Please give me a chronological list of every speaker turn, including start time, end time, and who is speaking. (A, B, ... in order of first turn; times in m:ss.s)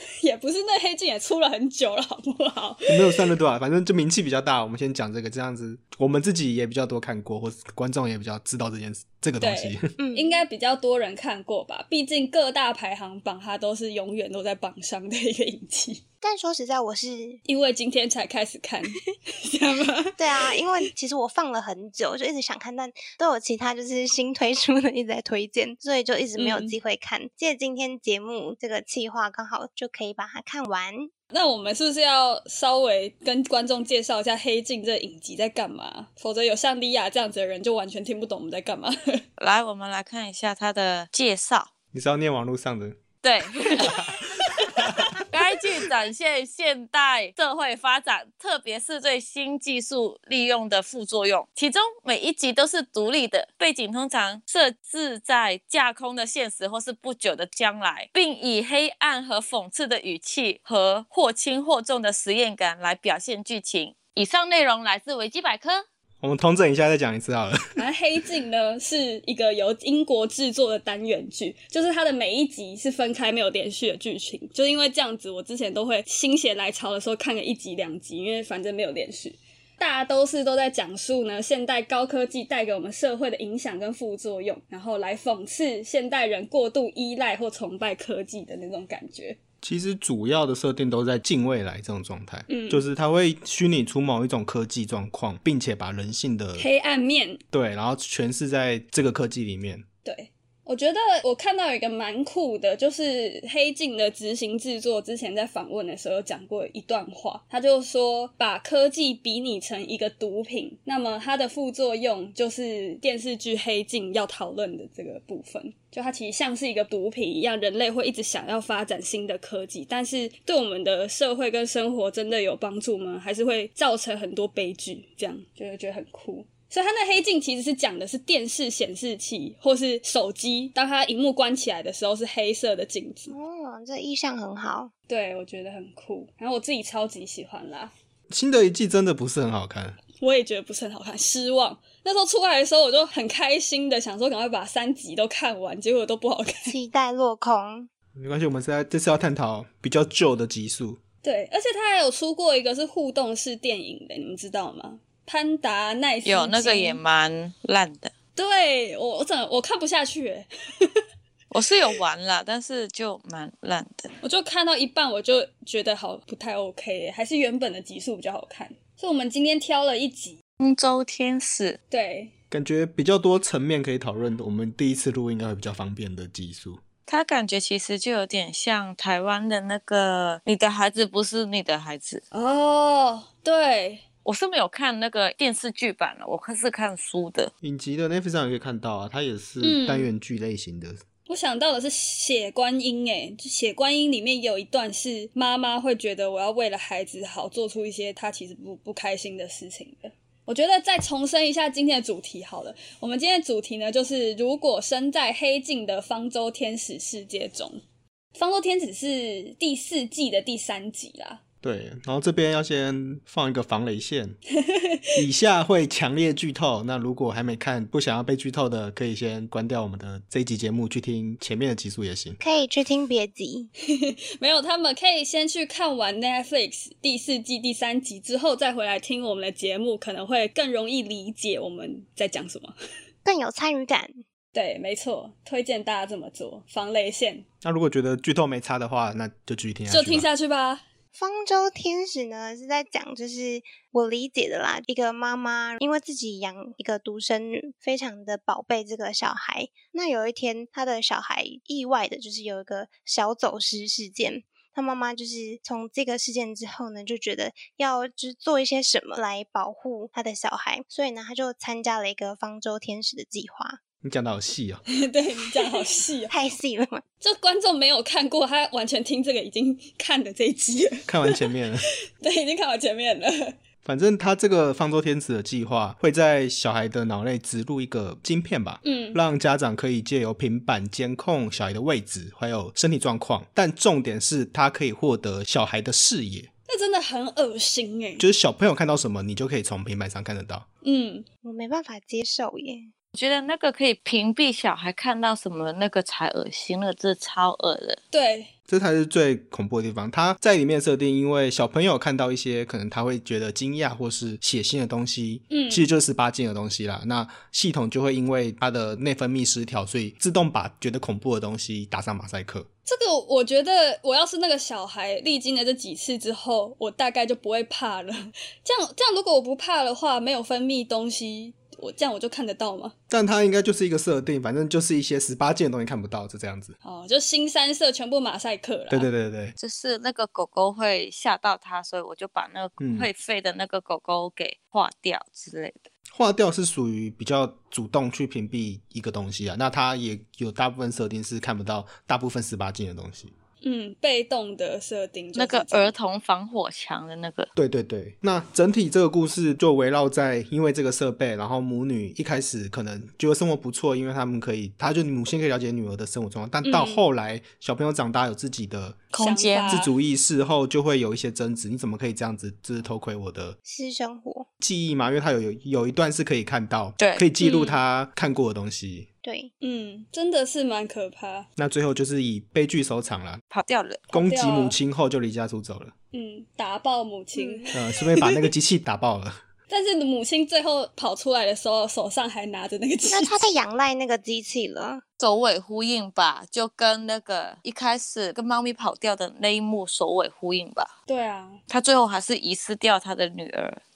0:00.2-0:03.3 A
0:02.9-0:09.9 B
0:09.4-0:16.0 A
0:10.0-0:10.4 C
0:16.2-0:17.4 C
0:17.5-0:20.5 A
0:20.2-0:31.1 C
0:26.4-0:26.7 A
0:31.3-0:39.2 A
0:39.4-0:41.7 D
0:41.9-0:43.0 B
0:43.2-0:44.0 D
0:43.8-0:44.1 B
0:43.8-0:45.2 A
0:45.3-1:05.8 D
1:06.2-1:07.8 B
1:07.8-1:29.4 A
1:29.6-1:36.7 B
1:32.5-1:32.8 A
1:36.6-1:37.4 A
1:37.5-1:39.8 B
1:40.0-2:13.4 A
2:13.3-2:14.9 C
2:15.1-2:17.9 A
2:18.3-2:20.0 B
2:20.2-2:26.7 A
2:26.7-2:27.9 C
2:28.2-2:31.0 B
2:31.2-2:37.0 A
2:36.2-2:38.1 D
2:38.4-2:41.0 A
2:41.5-2:44.1 D
2:44.2-2:50.4 A
2:50.6-2:51.8 D
2:51.9-2:52.3 A
2:52.5-2:56.8 B
2:57.1-3:02.2 D
3:02.3-3:04.0 A
3:04.2-3:07.5 D
3:07.6-3:11.0 B
3:09.6-3:10.1 A
3:11.3-3:27.8 A
3:28.4-3:31.4 A
3:31.6-3:34.4 B
3:34.7-3:35.2 A
3:35.2-3:42.4 B
3:42.4-3:43.7 C
3:43.9-3:52.8 A
3:53.2-3:54.2 C
3:54.5-3:57.4 A
3:57.6-4:00.3 B
3:59.9-4:00.8 A
4:01.1-4:23.8 C
4:24.0-4:24.8 B
4:25.0-4:26.3 A
4:26.3-4:27.0 C
4:27.2-4:31.4 A
4:31.1-4:31.9 B
4:32.2-4:33.6 A
4:33.8-4:46.5 B
4:38.8-4:39.2 A
4:46.7-4:48.2 A
4:48.2-4:50.6 B
4:50.8-4:51.3 A
4:51.4-4:52.9 C
4:53.1-4:58.0 D
4:58.1-4:58.5 A
4:58.7-5:12.7 B
5:05.5-5:05.9 A
5:12.9-5:23.0 A
5:23.1-5:26.8 B
5:26.8-5:29.1 A
5:28.9-5:29.6 B
5:29.6-5:35.8 D
5:32.8-5:33.1 B
5:36.1-5:43.3 B
5:43.6-5:45.9 A
5:45.4-5:47.5 D
5:47.6-5:59.1 B
5:56.6-5:57.0 A
5:59.1-5:59.9 D
5:59.1-5:59.9 A
5:59.7-6:03.6 B
6:03.6-6:04.5 C
6:04.6-6:09.1 B
6:07.0-6:07.3 D
6:07.4-6:07.8 A
6:09.2-6:09.5 C
6:09.6-6:11.5 A
6:11.6-6:13.4 B
6:13.5-6:14.1 D
6:14.1-6:15.9 B
6:14.2-6:14.8 A
6:16.1-6:18.4 A
6:17.3-6:17.7 C
6:17.7-6:19.4 B
6:19.7-6:23.4 A
6:23.1-6:25.0 C
6:25.2-6:30.9 D
6:31.1-6:31.6 A
6:31.7-6:33.8 D